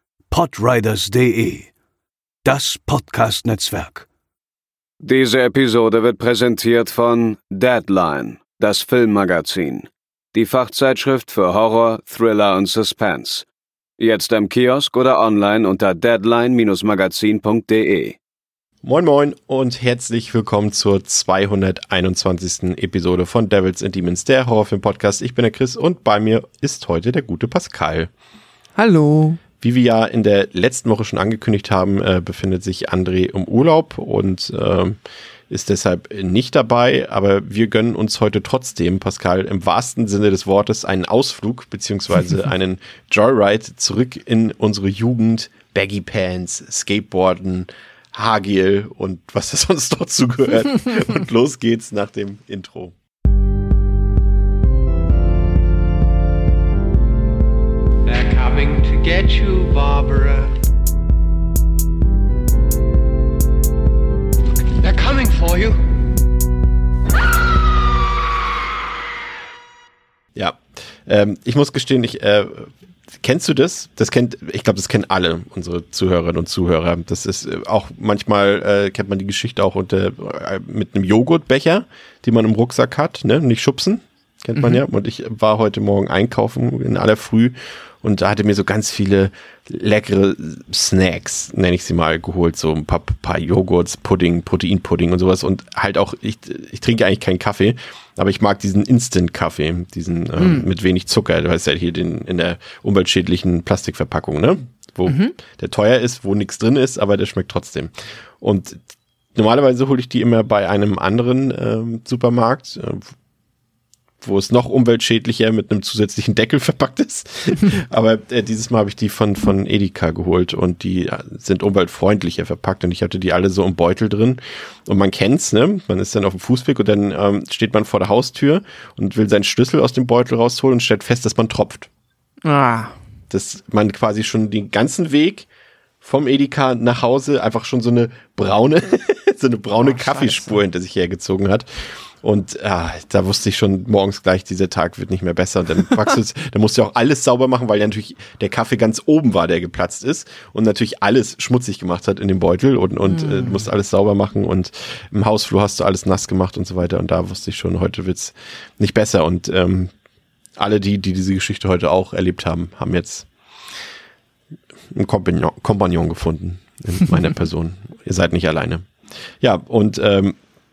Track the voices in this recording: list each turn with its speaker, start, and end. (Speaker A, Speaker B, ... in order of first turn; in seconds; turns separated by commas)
Speaker A: 0.3-1.7, Speaker A: 2.4-4.0, Speaker B: 5.0-13.5, Speaker B: 14.0-18.2, Speaker C: 18.8-28.1, Speaker D: 28.8-29.4, Speaker C: 29.6-35.0, Speaker C: 35.5-52.9, Speaker E: 58.0-60.5, Speaker E: 64.8-65.8, Speaker C: 70.3-108.8, Speaker D: 100.4-100.7, Speaker D: 105.0-105.3, Speaker C: 109.3-113.1, Speaker C: 114.2-131.9, Speaker D: 132.4-132.9, Speaker C: 133.3-135.5, Speaker C: 136.0-141.7, Speaker D: 139.8-140.6, Speaker C: 142.2-159.9, Speaker D: 153.1-153.6, Speaker C: 160.6-163.3, Speaker C: 164.9-168.8, Speaker C: 169.4-170.4